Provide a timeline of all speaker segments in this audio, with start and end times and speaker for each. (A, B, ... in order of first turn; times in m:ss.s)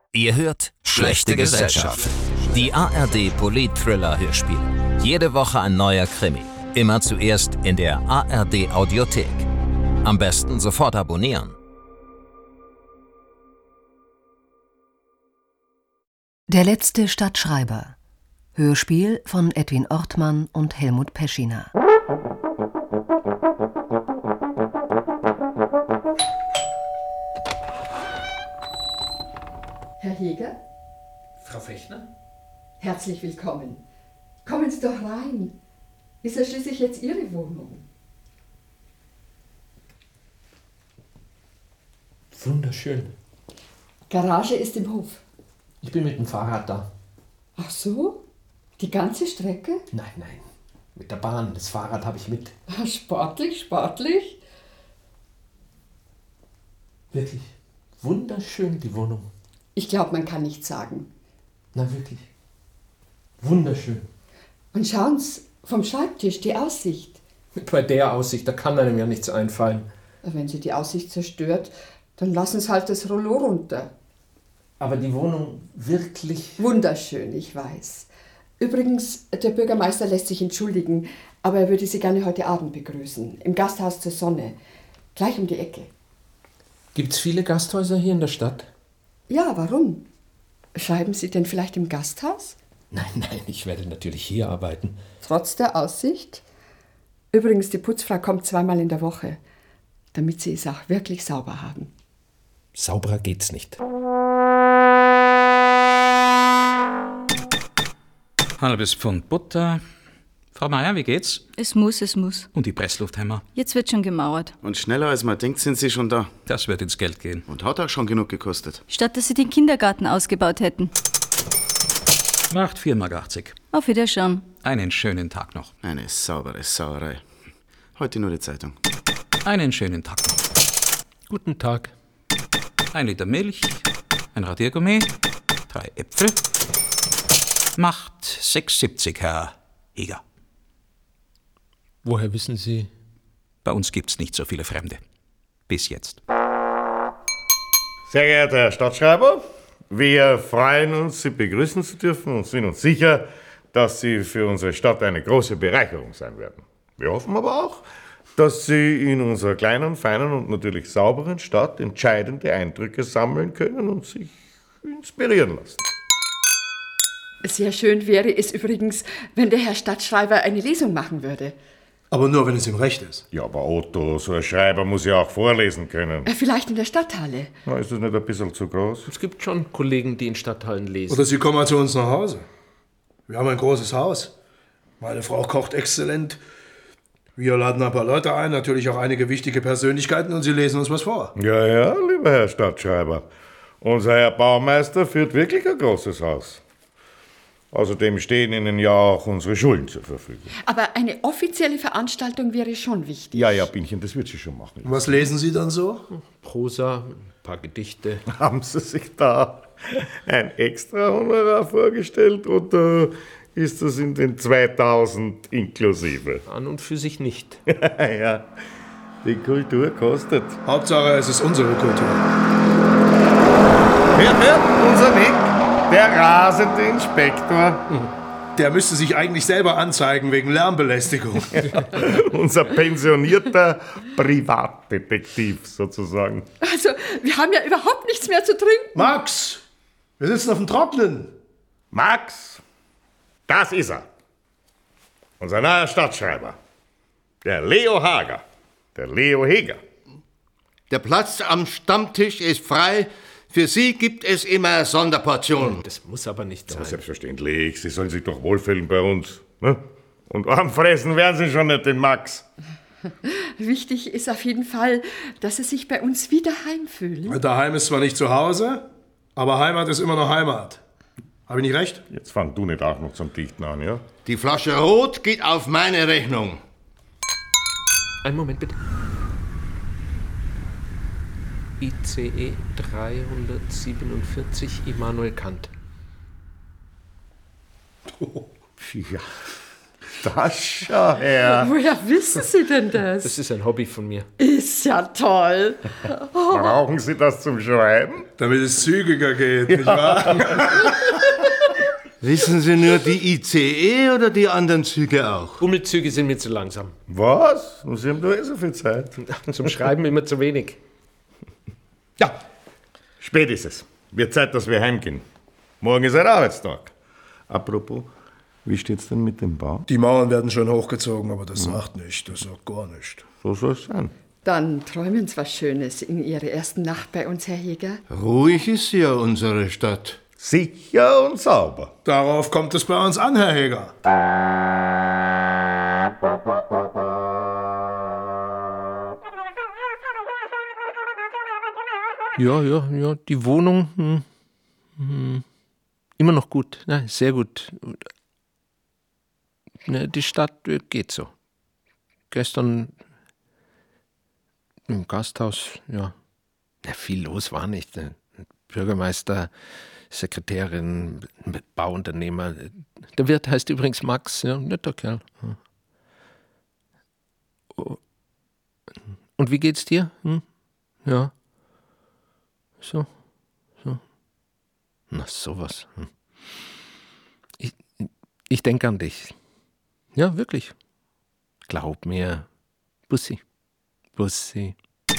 0:00.1-0:09.5 A
0:10.0-0:11.6 A
0:16.5-0:18.0 B
0:18.6-0:21.7 B
0:30.0-0:30.6 C
0:31.4-0:32.1 D
0:32.8-0:33.8 C
0:34.4-0:35.6 C
0:36.2-0:37.8 C
0:42.3-0:43.1 D
0:44.1-0:45.2 C
0:45.8-0:46.9 D
0:47.6-0:48.2 C
0:48.8-0:49.8 C
0:49.9-0:52.5 D
0:52.7-0:54.4 C
0:57.1-0:59.3 D
0:59.8-1:01.1 C
1:01.7-1:02.2 D
1:03.4-1:04.1 D
1:04.7-1:07.2 C
1:07.6-1:09.9 D
1:10.2-1:13.9 C
1:14.8-1:16.6 D
1:16.6-1:18.1 C
1:18.6-1:24.6 C
1:25.2-1:25.9 C
1:27.0-1:28.7 D
1:29.3-1:30.0 C
1:30.8-1:32.6 C
1:32.9-1:35.0 D
1:35.2-1:36.4 C
1:37.3-1:39.4 C
1:40.1-1:41.9 C
1:42.8-1:43.8 D
1:48.6-1:49.8 E
1:50.6-1:51.4 E
1:51.6-1:52.5 F
1:52.5-1:53.4 E
1:53.5-1:54.5 F
1:54.6-1:56.3 G
1:56.5-1:57.4 E
1:57.5-1:58.8 G
1:58.9-2:00.9 F
2:02.5-2:03.6 E
2:03.7-2:04.5 F
2:04.6-2:05.7 E
2:05.8-2:07.2 G
2:08.0-2:08.8 G
2:09.4-2:10.4 E
2:11.3-2:11.9 D
2:12.9-2:15.1 E
2:15.7-2:16.4 E
2:17.8-2:20.2 E
2:22.0-2:22.9 D
2:23.6-2:25.0 E
2:25.7-2:26.2 E
2:28.1-2:37.8 H
2:38.4-2:45.8 H
2:47.4-2:51.6 C
2:52.1-2:53.2 I
2:53.3-2:56.3 H
2:56.2-2:57.5 C
2:57.7-2:59.1 H
2:59.1-3:01.3 D
3:01.1-3:02.4 I
3:03.3-3:04.3 I
3:05.0-3:06.4 I
3:07.4-3:11.3 I
3:11.4-3:13.3 H
3:13.8-3:16.6 H
3:17.7-3:20.5 H
3:20.6-3:23.6 C
3:23.3-3:25.3 H
3:24.8-3:26.1 I
3:26.1-3:28.2 D
3:28.3-3:36.4 H
3:36.5-3:37.6 D
3:37.7-3:38.5 H
3:39.2-3:40.6 H
3:40.6-3:42.2 I
3:44.2-3:48.0 H
3:48.6-3:51.6 I
3:51.5-3:56.5 H
3:56.6-3:59.1 C
3:59.0-3:59.6 I
4:00.2-4:01.3 I
4:01.9-4:02.6 H
4:03.5-4:04.0 H
4:05.4-4:06.6 H
4:07.4-4:08.4 H
4:09.0-4:09.8 H
4:10.9-4:15.8 J
4:15.6-4:17.0 D
4:16.7-4:22.4 H
4:23.2-4:27.4 C
4:27.3-4:30.8 I
4:31.5-4:32.0 I
4:32.1-4:34.0 H
4:34.2-4:36.6 J
4:38.2-4:38.8 D
4:41.8-4:45.7 D
4:48.2-4:48.4 I
4:48.8-4:49.3 H
4:50.2-4:51.7 H
4:51.5-4:53.4 C
4:53.2-4:54.3 D
4:54.4-4:56.8 C
4:56.5-4:58.3 H
4:58.4-5:00.8 I
5:00.3-5:00.8 H
5:02.2-5:05.6 J
5:05.6-5:07.0 D
5:07.1-5:09.1 H
5:09.3-5:10.8 D
5:13.2-5:15.2 H
5:15.8-5:16.9 H
5:17.5-5:18.1 H
5:18.6-5:19.9 H
5:19.9-5:23.3 I
5:23.4-5:24.1 H
5:24.4-5:28.0 C
5:28.1-5:30.2 J
5:30.4-5:31.9 H
5:32.0-5:33.9 I
5:42.4-5:44.3 D
5:45.0-5:45.4 D
5:46.2-5:48.0 D
5:49.9-5:51.3 D
5:52.3-5:52.9 D
5:54.9-5:56.1 D
5:56.8-5:59.5 D
6:00.1-6:05.6 D
6:07.7-6:08.0 D
6:09.4-6:10.4 D
6:11.0-6:11.3 D
6:12.8-6:13.1 D
6:15.1-6:16.1 D
6:17.6-6:19.3 D
6:20.1-6:20.7 D
6:21.7-6:22.5 D
6:23.1-6:23.4 D
6:24.2-6:24.8 D